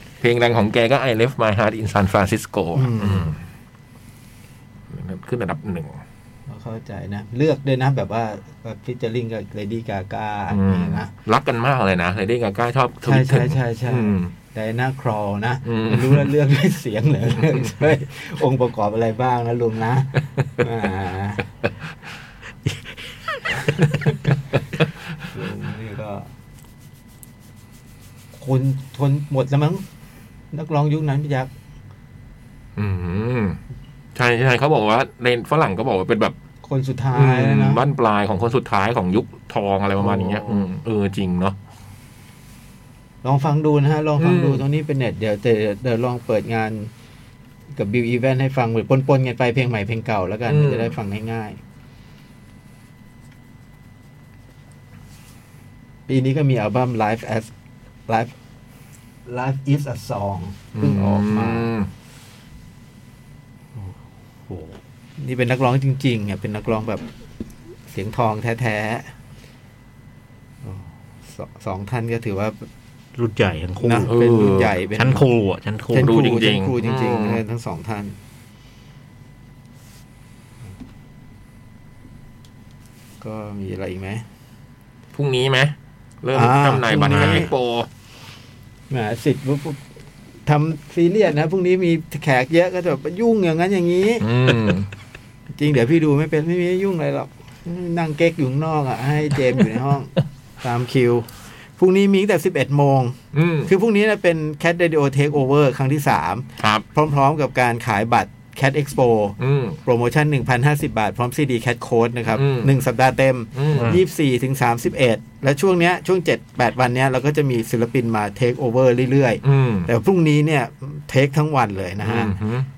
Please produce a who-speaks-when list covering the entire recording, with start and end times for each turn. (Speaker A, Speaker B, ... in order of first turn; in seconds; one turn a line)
Speaker A: 0.2-3.4
Speaker B: 2.8-3.3
Speaker A: 4.9-6.0
Speaker B: 6.5-11.1
Speaker A: 10.5-14.3
Speaker B: 13.1-21.5
Speaker A: 15.7-16.3
Speaker B: 23.9-24.1
Speaker B: 25.3-26.3
Speaker B: 28.4-29.8
Speaker B: 30.5-31.5
Speaker A: 32.8-33.6
Speaker A: 34.1-36.4
Speaker B: 36.6-37.8
Speaker A: 37.1-41.6
Speaker B: 40.0-40.7
Speaker B: 43.2-46.9
Speaker A: 44.2-44.6
Speaker B: 47.7-51.6
Speaker A: 50.5-50.9
Speaker B: 56.1-57.5
Speaker B: 58.1-58.3
Speaker B: 59.3-61.7
Speaker A: 60.8-61.9
Speaker B: 65.2-67.0
Speaker B: 67.9-69.1
Speaker B: 70.6-72.7
Speaker C: 73.2-74.1
Speaker B: 73.8-75.2
Speaker A: 74.1-74.7
Speaker C: 75.0-76.2
Speaker B: 75.9-78.2
Speaker A: 76.0-77.4
Speaker B: 83.2-84.2
Speaker A: 85.1-87.9
Speaker B: 86.3-87.5
Speaker C: 87.1-87.4
Speaker B: 88.9-89.8
Speaker B: 90.5-94.3
Speaker A: 94.2-94.9
Speaker B: 95.5-122.4
Speaker A: 103.3-103.7
Speaker A: 106.6-106.8
Speaker A: 109.4-109.8
Speaker A: 112.3-112.7
Speaker A: 113.5-114.0
Speaker C: 113.8-114.0
Speaker A: 119.4-119.9
Speaker A: 122.0-122.7